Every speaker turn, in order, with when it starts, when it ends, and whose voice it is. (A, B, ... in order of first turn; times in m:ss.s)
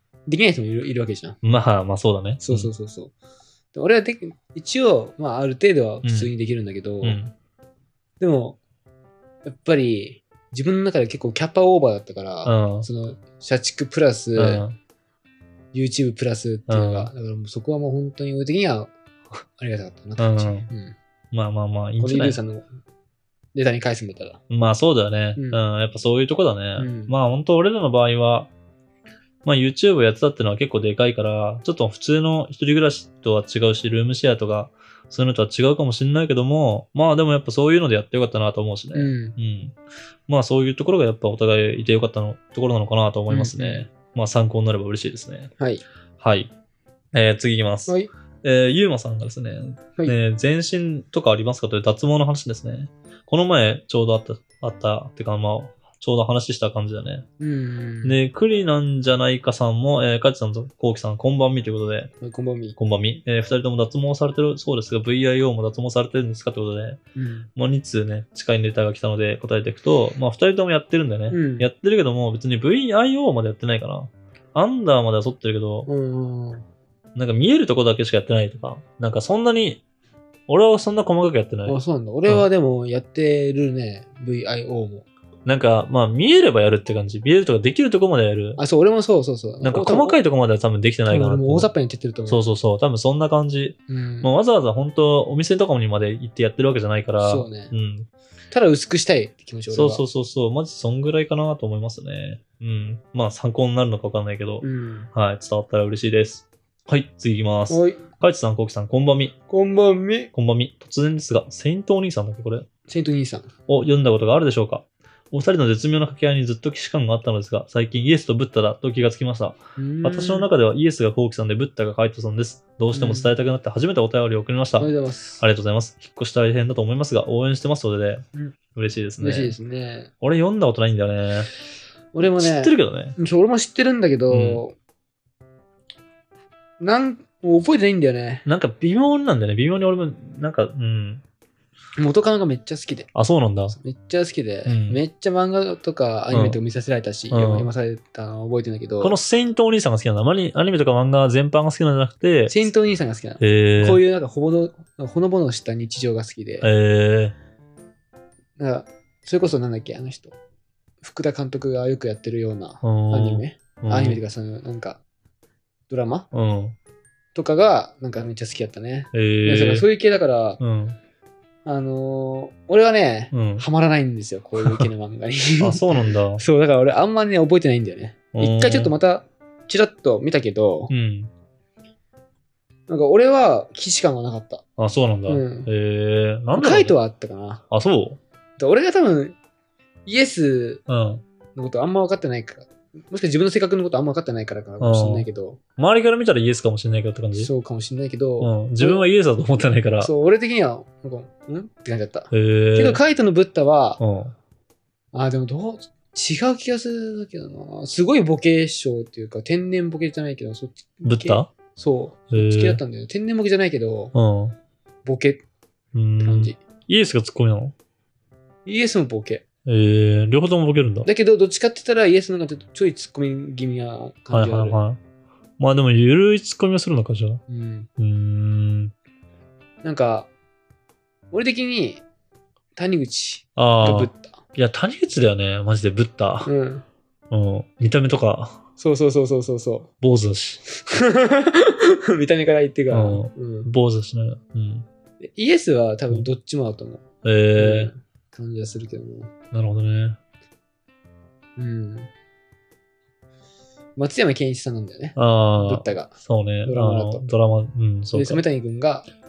0:00.3-0:01.4 A
0:01.4-0:02.7 B
0:02.4-0:03.1 A
0:03.7-0:07.2 A
0:06.0-0:06.3 B
0:07.0-0:07.3 B
0:08.2-0:08.6 A
0:09.4-0:14.6 A
0:12.4-0:12.9 B
0:14.4-0:14.8 B
0:15.7-0:18.9 A
0:16.7-0:17.1 B
0:19.6-0:21.0 A
0:20.2-0:20.7 B
0:21.3-0:22.4 B
0:22.0-0:22.7 A
0:23.5-0:24.4 A
0:24.5-0:28.5 B
0:25.4-0:25.6 A
0:26.8-0:27.2 A
0:29.4-0:39.8 B
0:38.9-0:39.4 A
0:40.3-0:45.5 B
0:43.3-0:43.9 A
0:45.6-0:45.8 A
0:46.2-0:46.5 B
0:47.1-0:57.3 B
0:57.4-0:58.2 A
0:58.0-1:02.1 B
1:02.2-1:02.8 A
1:02.8-1:07.0 B
1:07.2-1:07.5 A
1:07.6-1:15.9 B
1:11.3-1:11.7 A
1:15.9-1:16.6 A
1:17.2-1:19.8 B
1:20.5-1:22.5 B
1:21.7-1:25.1 A
1:25.5-1:28.6 B
1:28.6-1:30.2 A
1:29.6-1:31.7 B
1:31.1-1:32.4 A
1:32.3-1:38.1 B
1:33.9-1:34.3 A
1:37.2-1:37.7 A
1:38.5-1:40.0 A
1:39.7-1:49.4 B
1:44.6-1:45.1 A
1:47.7-1:48.1 A
1:49.5-1:50.3 A
1:50.3-1:52.7 B
1:52.9-1:53.5 A
1:53.7-2:09.6 B
1:59.8-2:00.5 A
2:02.9-2:03.3 A
2:04.8-2:05.4 A
2:09.2-2:10.1 A
2:10.2-2:11.5 B
2:12.1-2:14.8 A
2:12.2-2:13.2 B
2:14.3-2:14.6 B
2:16.8-2:18.5 A
2:18.5-2:21.2 B
2:22.0-2:23.1 A
2:23.2-2:23.8 B
2:23.7-2:29.2 A
2:24.7-2:25.0 B
2:26.3-2:26.6 B
2:27.3-2:27.7 B
2:29.0-2:32.7 B
2:32.5-2:36.7 A
2:33.4-2:34.0 B
2:36.6-2:37.4 B
2:38.6-2:40.4 A
2:41.0-2:45.0 A
2:42.8-2:44.2 B
2:45.9-2:46.3 A
2:46.3-2:46.8 B
2:47.4-2:50.6 A
2:49.1-2:49.9 B
2:50.6-2:51.0 B
2:51.6-3:00.9 A
2:53.3-2:53.6 B
2:54.6-2:54.9 B
2:55.6-2:56.4 B
2:58.3-2:58.9 B
3:00.9-3:01.3 B
3:02.9-3:04.6 A
3:04.8-3:07.0 B
3:05.3-3:05.7 A
3:06.5-3:07.6 A
3:07.7-3:08.2 B
3:08.6-3:09.4 A
3:10.1-3:10.8 A
3:10.9-3:11.2 B
3:11.6-3:15.6 A
3:14.8-3:15.3 B
3:15.8-3:17.5 B
3:17.4-3:19.1 A
3:18.4-3:20.1 B
3:20.0-3:24.0 A
3:22.3-3:23.0 B
3:24.0-3:24.4 B
3:25.1-3:34.1 A
3:31.0-3:31.5 B
3:32.3-3:32.8 B
3:34.1-3:34.6 B
3:35.0-3:35.4 A
3:36.0-3:37.8 B
3:36.2-3:36.6 A
3:38.6-3:39.4 A
3:39.7-3:41.1 B
3:41.0-3:44.8 A
3:44.3-3:45.0 B
3:45.6-3:47.4 B
3:47.5-3:47.9 A
3:48.0-3:48.9 B
3:49.8-3:50.3 A
3:51.3-3:52.0 A
3:52.8-3:54.4 A
3:53.6-3:56.5 B
3:56.4-3:56.8 A
3:57.3-3:58.6 B
3:58.8-3:59.9 A
4:00.0-4:00.6 B
4:00.7-4:03.7 A
4:02.9-4:04.9 B
4:05.2-4:07.0 A
4:07.2-4:07.9 B
4:07.6-4:09.3 A
4:09.5-4:10.2 B
4:11.6-4:12.1 A
4:14.0-4:16.1 A
4:15.2-4:18.4 B
4:16.6-4:17.3 A
4:18.1-4:19.1 A